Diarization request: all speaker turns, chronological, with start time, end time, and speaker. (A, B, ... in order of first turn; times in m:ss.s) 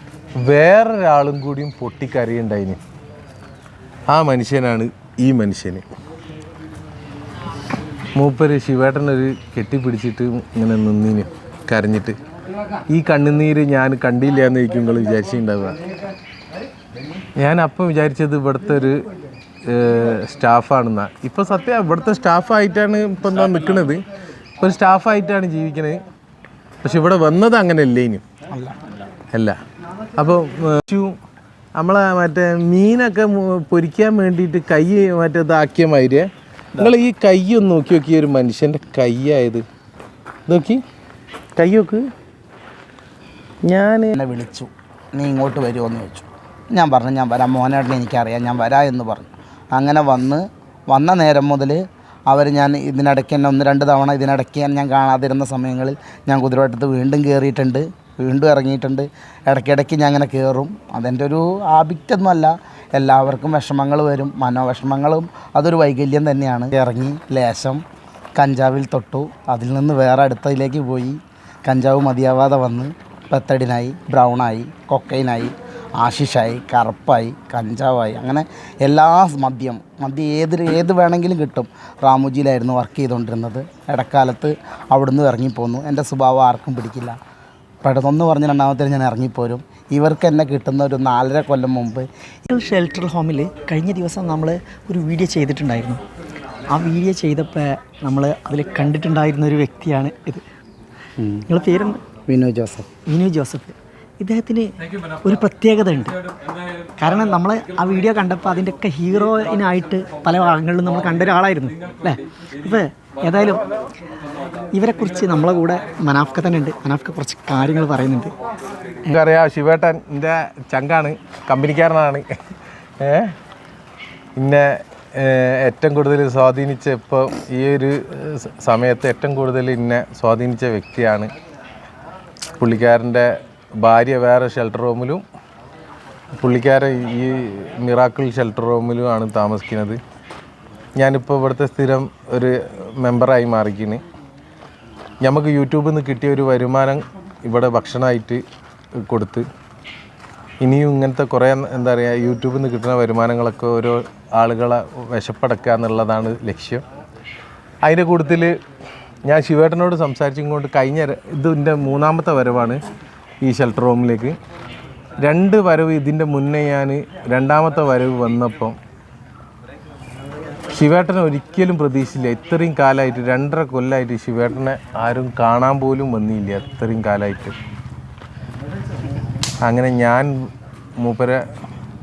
0:00.4-0:02.8 A
0:04.1-0:05.8 A
0:08.2-0:12.2 A
0:12.9-0:15.8 A
0:17.4-0:19.0 A
0:19.7-0:24.0 A
0:24.6-0:26.0 A
0:26.8-0:28.2 A
0:28.5-0:28.8 B
0:29.3-0:29.6 A
0:30.2-0:31.2 A
0:31.8-0:39.6 A
0:40.5-0:40.8 A
0:41.6-0:42.0 A
0:43.7-0:44.2 A
0:44.1-1:07.8 B
1:08.4-1:27.2 B
1:27.8-1:32.0 B
1:32.5-1:36.0 C
1:36.7-1:40.4 C
1:41.2-1:41.5 B
1:41.5-1:42.0 C
1:42.3-1:42.9 B
1:43.1-1:46.2 C
1:47.0-1:53.7 C
1:54.7-1:58.3 C
1:59.1-2:02.2 A
2:03.0-2:03.3 A
2:04.4-2:11.3 A
2:12.6-2:15.2 A
2:16.4-2:20.0 A
2:21.0-2:24.0 A
2:25.2-2:28.4 A
2:29.0-2:29.4 A
2:30.6-2:36.8 A
2:37.8-2:38.6 A
2:39.3-2:42.8 A
2:43.4-2:44.4 A
2:45.2-2:48.8 A
2:50.7-2:57.6 A
2:59.6-3:00.3 A
3:01.0-3:01.4 A